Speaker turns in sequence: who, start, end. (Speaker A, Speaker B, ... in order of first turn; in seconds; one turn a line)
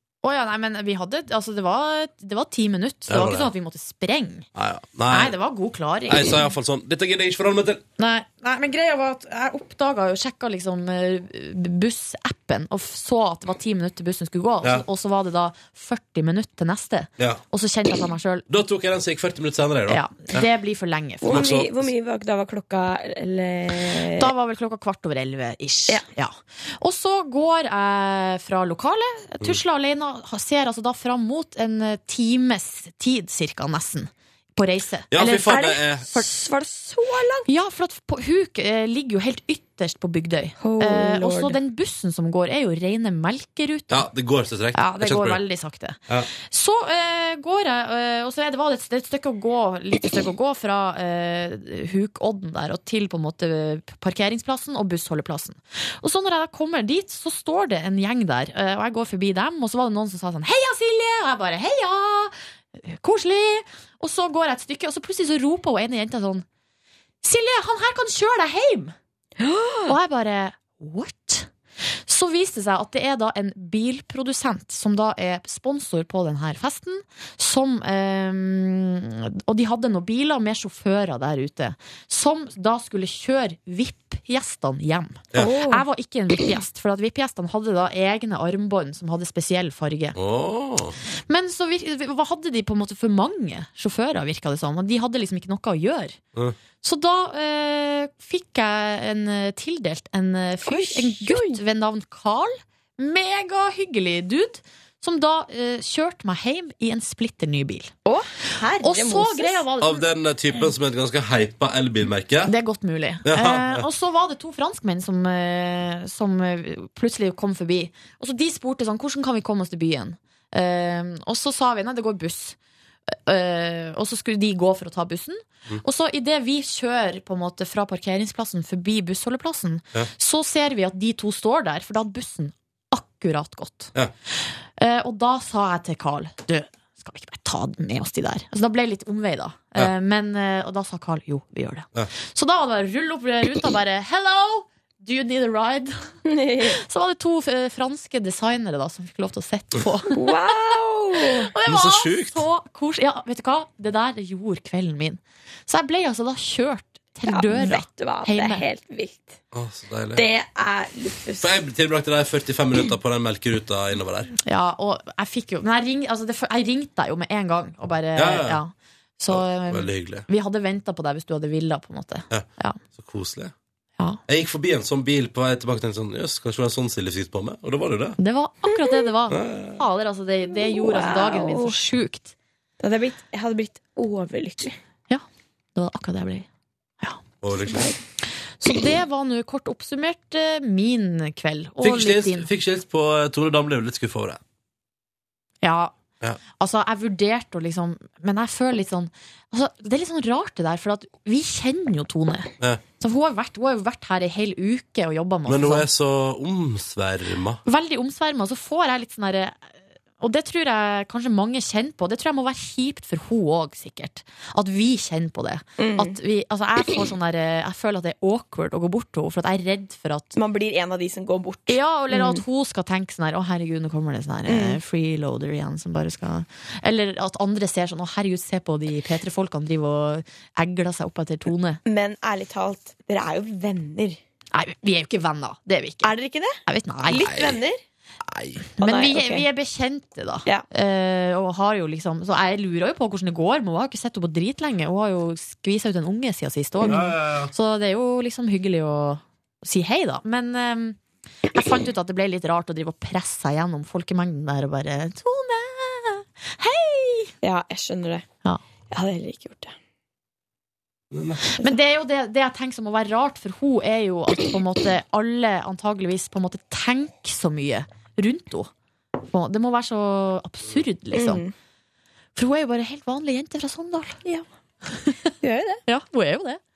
Speaker A: 0.2-4.5
Speaker B: 3.1-3.5
Speaker B: 4.5-5.3
Speaker A: 5.1-6.4
Speaker B: 6.1-7.8
Speaker A: 8.0-18.4
Speaker B: 18.5-20.4
Speaker A: 19.9-21.4
Speaker C: 21.2-24.3
Speaker B: 21.2-21.9
Speaker A: 24.1-35.6
Speaker B: 35.1-36.1
Speaker C: 35.5-37.5
Speaker A: 37.5-44.1
Speaker C: 40.6-41.6
Speaker B: 43.9-45.4
Speaker A: 44.7-66.4
Speaker A: 67.2-68.9
Speaker C: 69.4-69.9
Speaker A: 69.9-71.5
Speaker A: 72.0-90.2
Speaker C: 85.3-85.8
Speaker B: 90.1-91.0
Speaker A: 91.3-96.2
Speaker A: 96.8-107.9
Speaker C: 100.7-101.6
Speaker C: 108.0-109.6
Speaker A: 108.8-110.0
Speaker B: 109.8-112.5
Speaker A: 112.5-122.6
Speaker B: 113.2-113.8
Speaker A: 123.1-146.1
Speaker C: 146.2-146.8
Speaker A: 146.7-150.2
Speaker C: 150.1-151.5
Speaker A: 151.4-158.6
Speaker B: 151.7-152.4
Speaker C: 157.3-159.4
Speaker B: 159.5-160.2
Speaker C: 160.2-161.5
Speaker B: 161.4-164.3
Speaker A: 164.4-172.8
Speaker B: 168.2-168.6
Speaker B: 169.3-170.2
Speaker B: 172.3-173.5
Speaker B: 174.3-178.2
Speaker A: 178.2-182.3
Speaker B: 179.3-179.8
Speaker C: 180.6-181.8
Speaker C: 182.8-184.8
Speaker A: 185.8-186.5
Speaker B: 187.4-187.9
Speaker C: 187.7-188.0
Speaker A: 188.6-192.5
Speaker B: 191.8-194.4
Speaker A: 195.6-195.9
Speaker A: 196.6-205.9
Speaker B: 205.4-207.6
Speaker A: 207.6-220.3
Speaker C: 215.8-216.2
Speaker C: 220.3-222.4
Speaker A: 221.7-231.8
Speaker C: 224.5-224.8
Speaker C: 231.8-234.2
Speaker A: 234.5-236.1
Speaker C: 236.0-237.8
Speaker A: 236.7-237.3
Speaker B: 237.2-237.6
Speaker B: 238.2-238.6
Speaker A: 238.8-257.3
Speaker C: 238.8-239.4
Speaker B: 246.8-247.5
Speaker C: 257.4-258.2
Speaker C: 258.9-259.7
Speaker B: 261.1-261.4
Speaker A: 261.6-268.7
Speaker A: 269.3-271.4
Speaker C: 271.1-271.5
Speaker A: 272.4-274.2
Speaker C: 275.4-275.8
Speaker A: 275.9-276.6